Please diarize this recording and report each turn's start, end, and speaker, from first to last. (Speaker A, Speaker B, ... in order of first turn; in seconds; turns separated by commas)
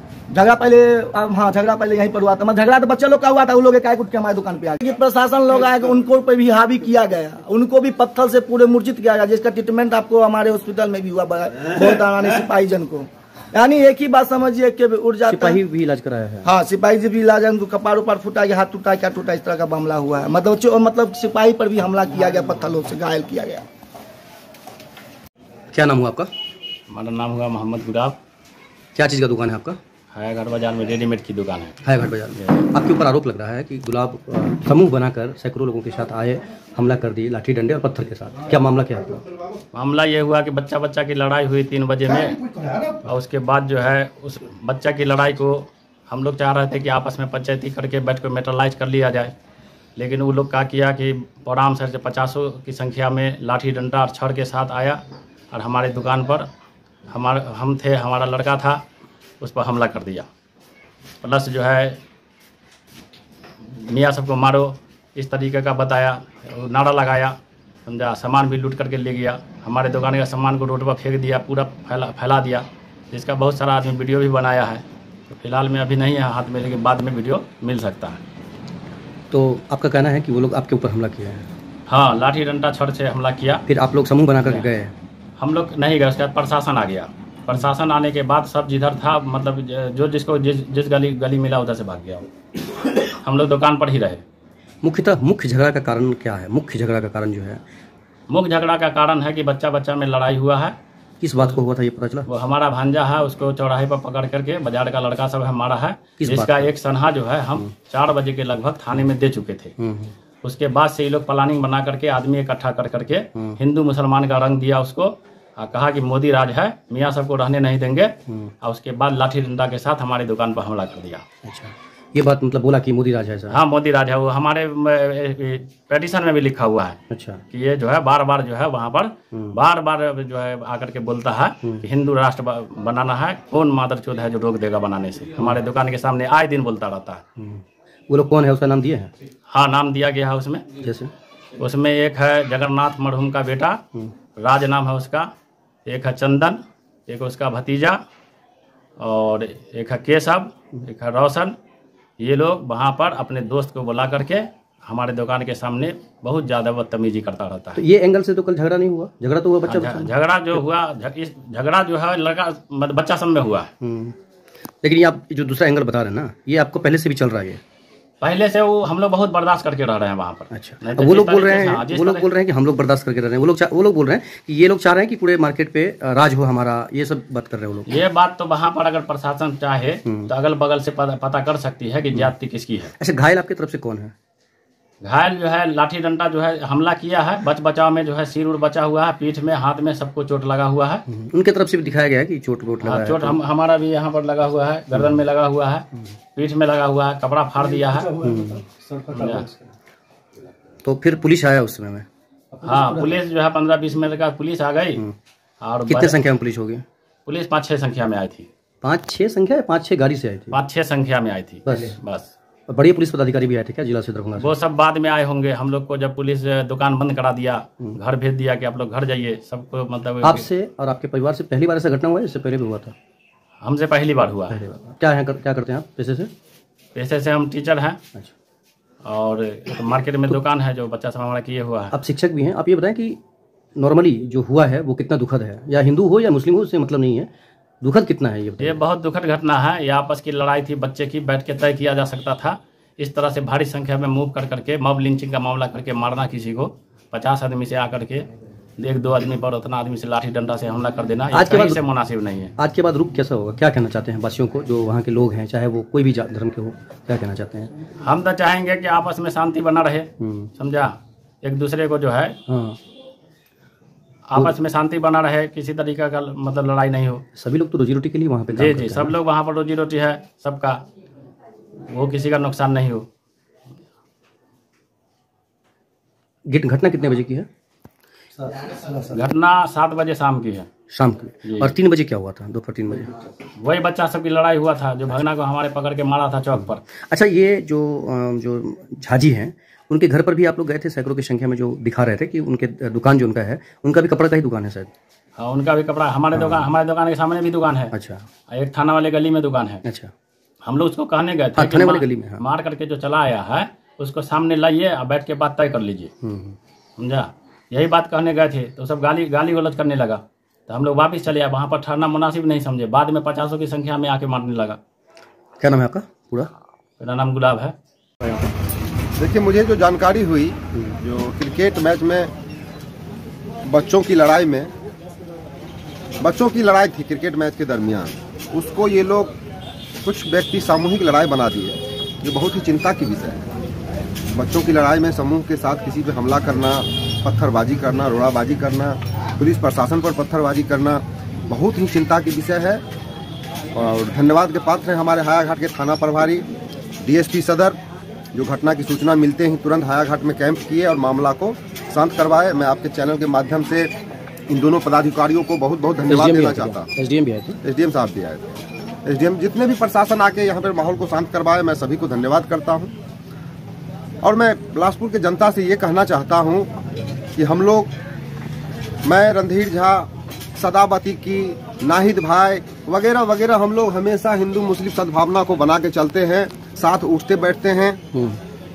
Speaker A: 0.3-15.6, Speaker B: 15.3-16.5, Speaker A: 16.4-23.6, Speaker B: 25.7-26.3, Speaker C: 26.9-28.2, Speaker B: 28.9-29.8, Speaker C: 30.1-31.8, Speaker B: 31.8-39.2, Speaker C: 32.4-32.6, Speaker C: 39.7-42.4, Speaker C: 43.0-49.3, Speaker C: 50.0-56.5, Speaker C: 57.1-58.8, Speaker C: 59.4-60.2, Speaker C: 61.2-62.0, Speaker C: 63.8-67.3, Speaker C: 67.9-78.2, Speaker B: 79.3-81.5, Speaker C: 81.9-83.6, Speaker B: 83.7-84.9, Speaker C: 84.4-84.7, Speaker C: 85.4-92.2, Speaker C: 93.2-94.2, Speaker B: 94.8-97.6, Speaker C: 98.3-100.7, Speaker B: 101.2-102.3, Speaker C: 102.3-109.7, Speaker B: 106.2-106.7, Speaker B: 109.8-110.1, Speaker C: 110.4-121.2, Speaker B: 121.4-123.6, Speaker C: 123.5-127.0, Speaker B: 127.1-127.4, Speaker C: 127.5-137.2, Speaker B: 137.4-139.1, Speaker C: 139.5-140.7, Speaker B: 140.8-141.1, Speaker C: 141.6-143.8, Speaker C: 144.4-145.3, Speaker C: 145.8-148.0, Speaker C: 149.0-151.5, Speaker C: 152.2-157.8, Speaker B: 157.8-160.6, Speaker C: 159.7-163.7, Speaker B: 163.8-164.1, Speaker B: 164.8-167.6, Speaker C: 168.2-172.3, Speaker B: 170.5-178.0, Speaker C: 177.9-182.9, Speaker B: 183.0-184.1, Speaker C: 185.0-191.0, Speaker B: 191.1-193.3, Speaker C: 192.8-198.1, Speaker B: 197.9-199.5, Speaker C: 199.1-199.5, Speaker B: 200.8-203.2, Speaker C: 202.6-205.0, Speaker C: 205.6-206.2, Speaker B: 205.9-206.8, Speaker C: 207.2-208.5, Speaker B: 208.8-210.6, Speaker C: 210.5-212.3, Speaker B: 211.7-212.0, Speaker B: 212.7-214.5, Speaker C: 214.4-220.4, Speaker B: 220.2-222.9, Speaker C: 223.6-224.6, Speaker B: 224.5-226.3, Speaker C: 226.9-228.0, Speaker C: 229.0-231.9, Speaker B: 231.9-233.2, Speaker B: 233.8-237.3, Speaker B: 237.8-238.8, Speaker C: 238.6-252.5, Speaker B: 251.3-251.8, Speaker B: 252.6-257.7, Speaker C: 258.0-262.4, Speaker B: 260.2-260.5, Speaker B: 262.5-262.8, Speaker C: 264.3-267.2, Speaker B: 267.3-269.1, Speaker C: 268.5-270.8, Speaker C: 271.9-273.1, Speaker B: 276.5-277.5, Speaker C: 278.9-280.7, Speaker B: 280.9-283.1, Speaker C: 281.4-281.7, Speaker C: 283.6-286.8, Speaker B: 287.1-294.9, Speaker C: 295.4-297.9, Speaker B: 296.3-296.7, Speaker B: 297.9-298.3, Speaker C: 298.5-299.8, Speaker B: 299.8-300.1, Speaker C: 300.6-306.1, Speaker B: 301.5-302.4, Speaker B: 306.2-306.6, Speaker C: 307.0-314.8, Speaker B: 315.6-316.5, Speaker C: 317.0-317.7, Speaker D: 319.1-322.3, Speaker D: 323.6-324.7, Speaker D: 326.2-329.3, Speaker D: 330.0-333.5, Speaker D: 334.3-342.8, Speaker D: 343.7-346.4, Speaker D: 347.0-347.8, Speaker D: 348.3-353.9, Speaker D: 354.5-356.9, Speaker B: 356.1-357.6, Speaker D: 357.6-358.4, Speaker D: 359.1-362.9, Speaker D: 364.2-366.7, Speaker D: 367.4-367.9, Speaker D: 369.1-378.0, Speaker B: 378.1-378.4